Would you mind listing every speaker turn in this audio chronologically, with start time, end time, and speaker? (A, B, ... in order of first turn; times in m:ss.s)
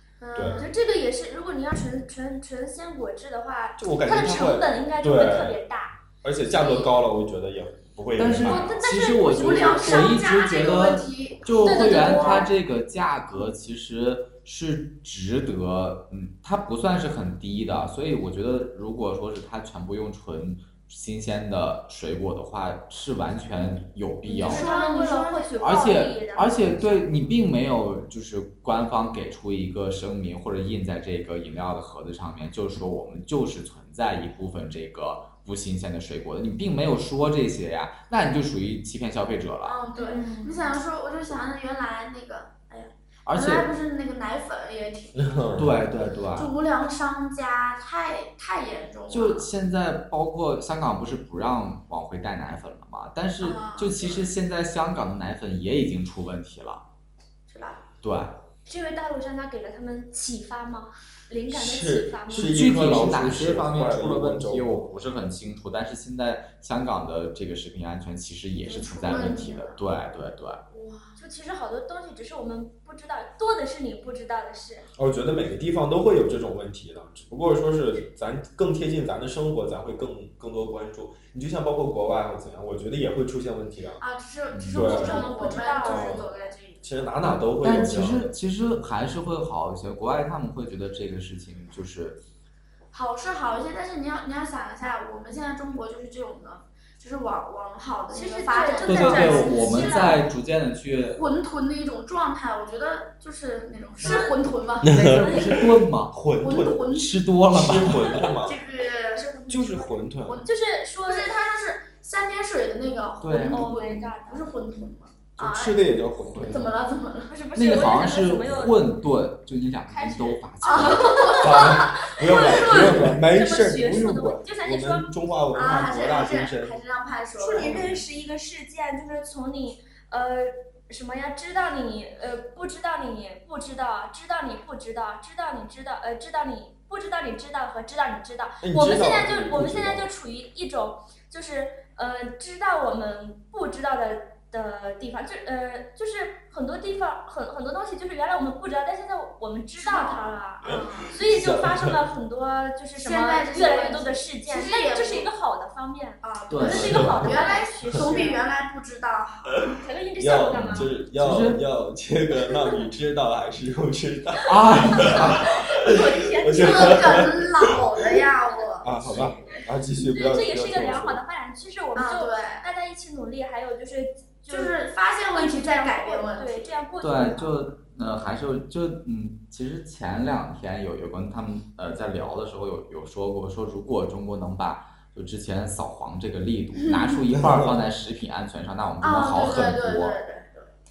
0:00.2-0:00.7 A
0:00.3-0:00.7 B
0:00.5-0:06.0 C
0:03.8-0:05.6 B
0:06.2-0:08.8 B
0:08.2-0:24.7 D
0:08.4-0:10.1 C
0:09.3-0:12.5 A
0:11.6-0:12.5 C
0:24.3-0:27.1 C
0:24.3-0:25.6 A
0:25.6-0:39.8 D
0:39.6-0:45.7 A
0:40.0-0:40.7 C
0:43.3-0:43.7 D
0:45.2-0:45.7 B
0:45.6-0:46.5 D
0:46.3-0:49.5 A
0:49.1-0:56.8 D
0:53.4-0:54.3 A
0:57.5-0:57.8 A
0:58.0-0:58.4 D
0:58.7-1:02.8 C
1:01.5-1:04.9 B
1:02.3-1:10.6 D
1:08.6-1:09.8 A
1:10.7-1:11.1 A
1:11.2-1:14.9 C
1:15.0-1:24.0 B
1:24.0-1:26.8 A
1:24.5-1:24.9 D
1:24.8-1:26.3 C
1:24.8-1:26.3 B
1:26.8-1:28.3 B
1:27.6-1:32.2 D
1:32.9-1:40.2 A
1:38.1-1:40.3 C
1:38.9-1:41.2 D
1:41.1-1:45.0 A
1:44.0-1:44.4 C
1:44.8-1:46.2 D
1:44.8-1:46.9 B
1:45.2-1:45.5 C
1:46.4-1:47.2 A
1:46.9-1:48.3 D
1:47.5-1:48.6 B
1:48.5-1:49.2 A
1:49.1-1:51.4 C
1:49.5-1:50.4 B
1:51.0-1:57.4 A
1:53.2-1:53.7 D
1:53.5-1:54.5 C
1:55.4-1:56.7 B
1:56.3-1:56.6 D
1:57.3-1:58.9 C
1:57.6-2:01.3 D
1:59.9-2:05.1 C
2:00.6-2:03.2 A
2:01.3-2:06.8 B
2:05.5-2:07.8 A
2:07.4-2:38.4 C
2:07.6-2:08.0 B
2:18.6-2:20.1 B
2:29.8-2:31.2 A
2:30.7-2:32.0 B
2:33.0-2:35.3 A
2:36.2-2:39.8 A
2:36.5-2:37.3 D
2:36.7-2:37.4 B
2:39.7-2:47.5 B
2:39.8-2:40.9 C
2:40.5-2:41.6 D
2:44.5-2:45.7 D
2:44.9-2:47.2 C
2:46.6-2:49.5 A
2:48.8-2:51.2 B
2:50.1-2:54.8 C
2:52.0-2:52.7 A
2:54.5-2:56.8 A
2:55.3-2:57.5 C
2:57.0-3:10.2 D
3:07.3-3:07.8 B
3:09.0-3:10.7 A